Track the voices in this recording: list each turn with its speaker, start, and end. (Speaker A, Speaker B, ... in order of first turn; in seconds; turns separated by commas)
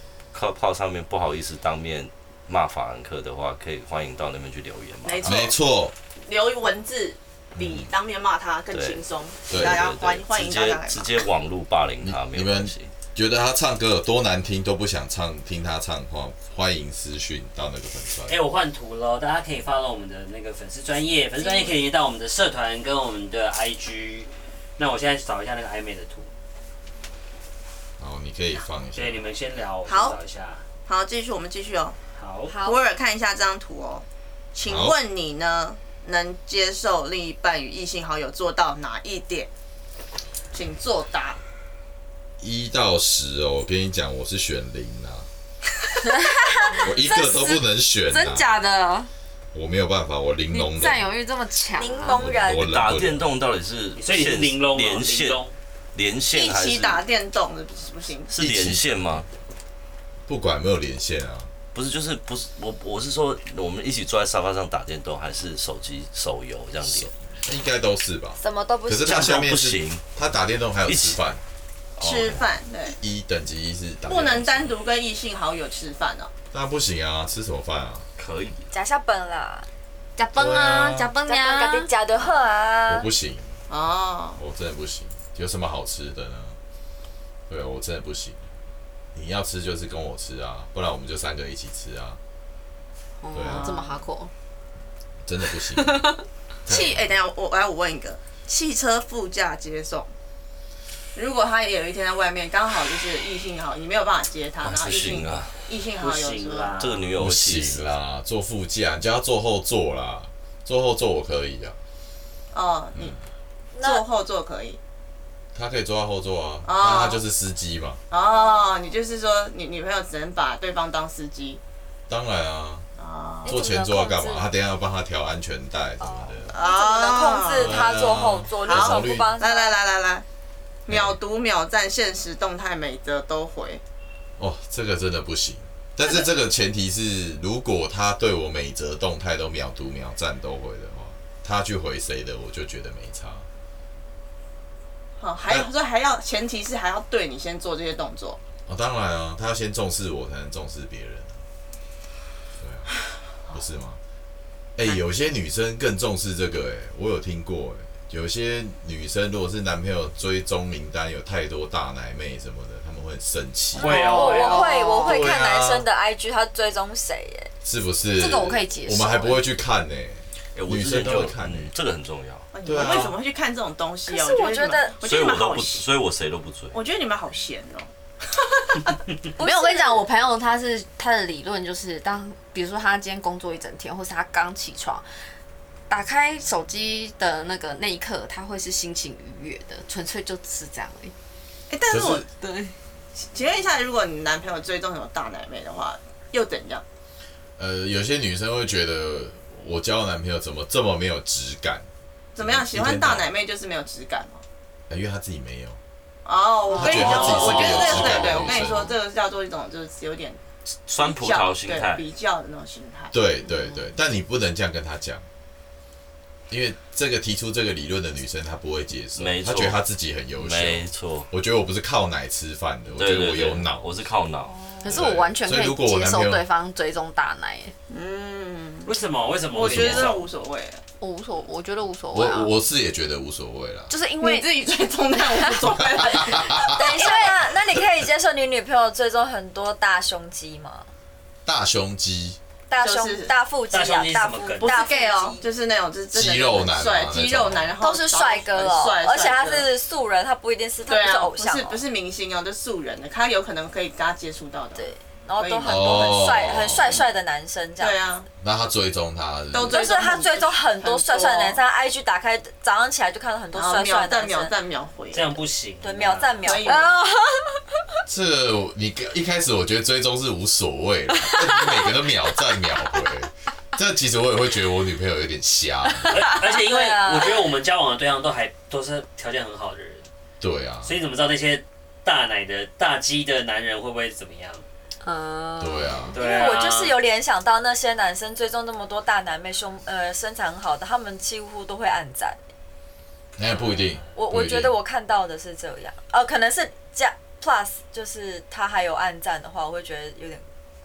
Speaker A: 0.3-5.3, Speaker B: 5.0-5.5, Speaker C: 5.2-5.9, Speaker B: 6.2-11.2, Speaker C: 7.6-7.9, Speaker A: 8.7-12.9, Speaker C: 9.5-9.9, Speaker C: 12.0-18.4, Speaker D: 18.3-26.3, Speaker C: 28.0-29.2, Speaker D: 28.9-30.6, Speaker B: 29.9-30.2, Speaker B: 30.9-32.0, Speaker D: 32.2-32.6, Speaker E: 32.5-32.8, Speaker B: 32.6-39.5, Speaker C: 34.7-35.0, Speaker B: 40.5-41.4, Speaker C: 42.4-45.3, Speaker F: 46.1-49.1, Speaker C: 46.7-48.5, Speaker C: 49.5-51.0, Speaker F: 50.5-52.3, Speaker E: 51.8-52.7, Speaker C: 52.1-53.3, Speaker A: 52.6-55.4, Speaker D: 54.0-55.5, Speaker A: 56.0-57.0, Speaker B: 56.3-58.3, Speaker A: 58.3-59.3, Speaker C: 58.4-58.9, Speaker C: 60.3-61.5, Speaker A: 61.7-67.1, Speaker C: 66.9-71.4, Speaker E: 68.4-69.3, Speaker A: 69.0-70.0, Speaker A: 70.9-71.2, Speaker B: 72.0-73.0, Speaker C: 72.0-72.4, Speaker C: 73.0-74.8, Speaker B: 74.1-76.3, Speaker C: 76.5-78.1, Speaker A: 78.2-78.7, Speaker E: 78.7-79.7, Speaker F: 80.2-81.9, Speaker C: 80.3-81.1, Speaker E: 81.3-83.1, Speaker C: 82.9-83.6, Speaker B: 83.7-84.4, Speaker C: 84.4-86.6, Speaker C: 87.5-88.5, Speaker C: 89.1-92.2, Speaker F: 93.2-94.3, Speaker C: 93.3-93.8, Speaker B: 93.5-94.0, Speaker C: 95.3-97.1, Speaker F: 95.8-96.2, Speaker B: 96.7-100.1, Speaker B: 101.2-106.8, Speaker A: 104.6-105.5, Speaker D: 106.0-107.0, Speaker A: 106.8-107.9, Speaker C: 107.2-111.8, Speaker B: 112.5-113.2, Speaker E: 113.7-114.0, Speaker B: 113.8-114.8, Speaker C: 115.5-118.0, Speaker B: 116.7-117.2, Speaker B: 118.1-121.6, Speaker E: 118.2-119.0, Speaker C: 122.1-122.9, Speaker B: 123.0-123.6, Speaker E: 123.4-124.5, Speaker C: 123.5-126.5, Speaker E: 126.0-129.8, Speaker B: 126.5-127.8, Speaker C: 127.6-129.3, Speaker B: 128.6-130.2, Speaker B: 130.9-133.8, Speaker C: 130.9-131.2, Speaker C: 134.4-143.5, Speaker B: 145.2-148.4, Speaker C: 148.7-151.4, Speaker C: 152.6-152.9, Speaker C: 153.5-154.0, Speaker C: 154.8-164.0, Speaker E: 163.7-167.5, Speaker D: 163.8-164.7, Speaker F: 164.1-165.1, Speaker C: 165.0-165.9, Speaker C: 167.6-171.7, Speaker F: 168.2-169.5, Speaker A: 170.6-172.5, Speaker B: 172.5-175.8, Speaker C: 172.7-173.2, Speaker E: 174.1-175.0, Speaker A: 175.0-176.8, Speaker B: 176.7-179.0, Speaker E: 179.4-180.1, Speaker F: 179.4-185.1, Speaker F: 185.9-191.1, Speaker B: 191.7-192.2, Speaker C: 191.9-192.2, Speaker F: 192.4-192.7, Speaker B: 193.2-196.8, Speaker C: 197.6-203.3, Speaker B: 202.3-204.4, Speaker C: 204.9-205.8, Speaker B: 206.2-210.4, Speaker C: 206.7-209.0, Speaker D: 206.9-208.4, Speaker F: 206.9-207.2, Speaker A: 210.9-212.1, Speaker B: 210.9-213.1, Speaker C: 213.1-215.3, Speaker C: 216.5-223.9, Speaker A: 219.2-219.8, Speaker A: 220.4-221.3, Speaker A: 223.0-224.6, Speaker E: 224.5-224.8, Speaker F: 224.8-227.7, Speaker C: 224.9-226.5, Speaker B: 227.9-228.9, Speaker D: 228.9-230.3, Speaker B: 229.5-230.8, Speaker C: 229.7-230.1, Speaker F: 231.0-232.5, Speaker C: 232.1-233.9, Speaker F: 233.9-234.6, Speaker B: 234.2-237.5, Speaker F: 235.3-235.6, Speaker C: 235.8-237.2, Speaker E: 236.7-240.9, Speaker C: 241.4-242.4, Speaker E: 242.7-245.4, Speaker B: 242.8-243.3, Speaker D: 243.7-244.8, Speaker B: 244.6-249.7, Speaker C: 246.1-247.7, Speaker E: 247.8-251.8, Speaker B: 250.9-257.1, Speaker E: 254.8-258.0, Speaker C: 255.7-257.0, Speaker B: 257.8-258.3, Speaker C: 258.4-260.1, Speaker B: 259.5-261.6, Speaker E: 259.6-264.5, Speaker B: 263.5-265.4, Speaker D: 265.1-266.6, Speaker E: 265.8-267.0, Speaker B: 266.4-266.9, Speaker F: 266.6-267.4, Speaker C: 268.1-276.2, Speaker F: 271.3-271.9, Speaker D: 276.1-280.1, Speaker E: 276.6-277.4, Speaker C: 280.4-280.9, Speaker D: 280.8-284.7, Speaker F: 285.0-286.1, Speaker C: 285.6-286.2, Speaker E: 286.1-292.4, Speaker D: 286.1-287.0, Speaker C: 293.4-294.7, Speaker E: 294.1-300.4